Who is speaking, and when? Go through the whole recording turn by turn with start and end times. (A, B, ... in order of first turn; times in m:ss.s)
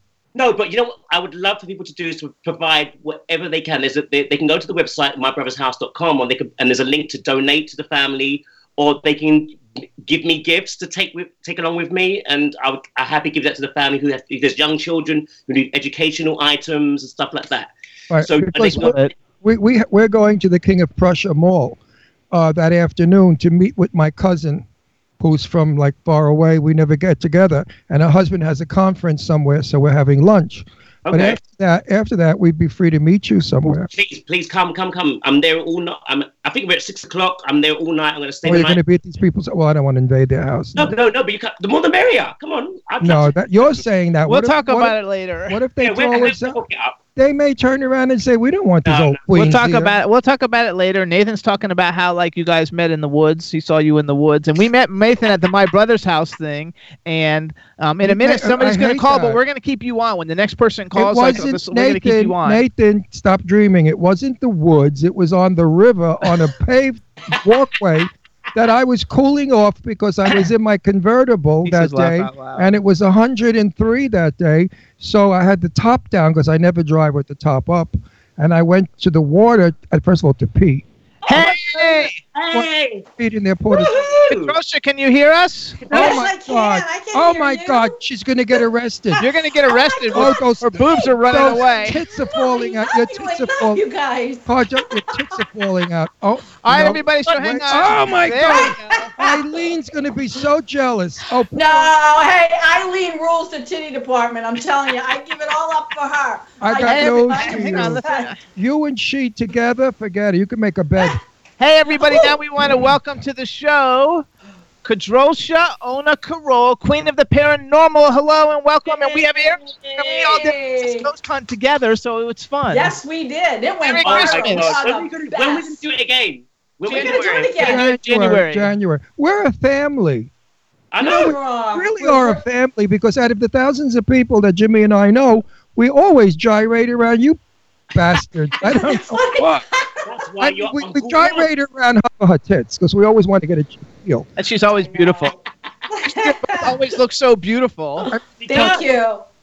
0:00.3-0:19.1 A
0:18.1-0:21.8 B
0:18.7-0:19.1 C
0:22.3-0:24.6 B
0:25.2-0:33.9 B
0:31.0-0:31.4 A
0:33.9-0:38.8 A
0:38.4-0:40.9 B
0:40.8-0:43.8 A
0:43.0-0:46.6 B
0:44.3-0:45.6 C
0:45.8-0:47.0 A
0:47.2-0:50.0 B
0:48.8-0:49.2 A
0:49.3-1:02.6 C
0:58.0-0:59.4 B
1:00.9-1:20.8 B
1:11.6-1:12.7 C
1:21.3-1:22.2 C
1:21.3-1:23.0 A
1:22.5-1:24.0 B
1:23.7-1:24.2 D
1:23.8-1:24.5 A
1:24.3-1:25.9 C
1:25.8-1:26.2 A
1:25.9-1:28.0 D
1:25.9-1:29.2 B
1:29.2-1:32.0 C
1:29.6-1:35.4 D
1:30.1-1:33.8 B
1:34.4-1:41.9 B
1:36.6-1:39.1 C
1:38.4-1:39.6 D
1:41.5-1:48.3 D
1:46.6-1:51.2 B
1:46.8-1:48.4 C
1:51.6-1:54.2 C
1:51.9-1:52.4 D
1:54.8-2:02.9 C
2:00.0-2:01.1 D
2:02.7-2:05.8 D
2:03.8-2:04.8 C
2:04.0-2:07.6 A
2:06.8-2:08.7 C
2:06.9-2:07.8 D
2:07.6-2:10.3 B
2:10.9-2:11.3 A
2:11.0-2:17.4 B
2:11.0-2:12.4 D
2:17.9-2:19.6 B
2:18.6-2:20.0 D
2:20.0-2:21.5 A
2:20.4-2:24.3 B
2:24.4-2:25.3 C
2:24.8-2:25.3 D
2:25.9-2:26.8 D
2:26.5-2:28.1 C
2:28.0-2:29.2 D
2:28.1-2:28.9 B
2:28.4-2:28.8 A